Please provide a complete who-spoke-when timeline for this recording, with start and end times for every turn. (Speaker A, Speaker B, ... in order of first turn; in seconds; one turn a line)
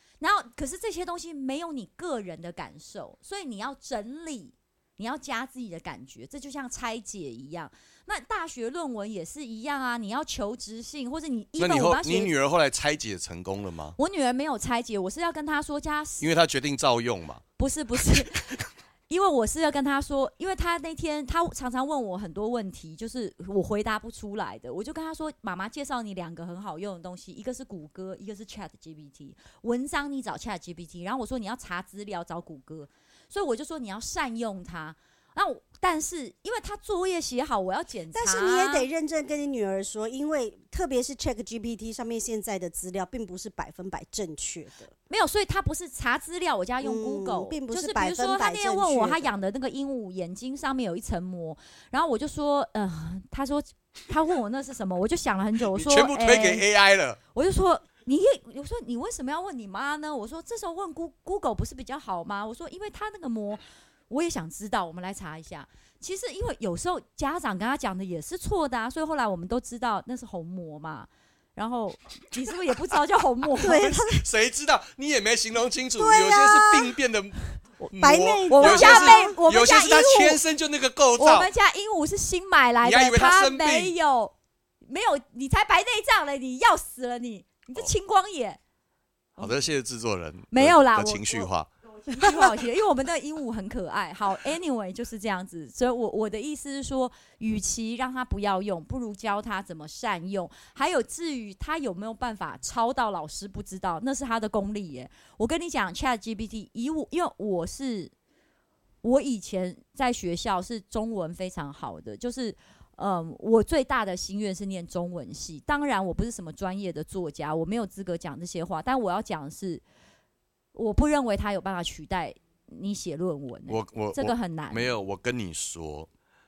Speaker A: 0.2-12.3
Speaker B: 11.6-14.0
Speaker A: 14.0-16.3
Speaker B: 16.2-17.4
Speaker A: 17.6-18.6
Speaker B: 18.1-18.6
Speaker A: 19.1-38.9
Speaker C: 38.1-44.9
Speaker A: 45.1-56.6
Speaker C: 46.8-49.3
Speaker B: 55.7-57.2
Speaker A: 57.3-74.0
Speaker C: 73.6-74.2
Speaker B: 74.1-81.5
Speaker C: 76.0-77.0
Speaker C: 78.0-79.3
Speaker A: 78.5-80.4
Speaker A: 81.2-84.3
Speaker B: 82.8-83.9
Speaker A: 84.9-88.6
Speaker B: 89.4-91.7
Speaker A: 90.5-91.5
Speaker A: 92.0-108.1
Speaker A: 109.0-119.8
Speaker A: 120.7-124.9
Speaker B: 123.7-126.1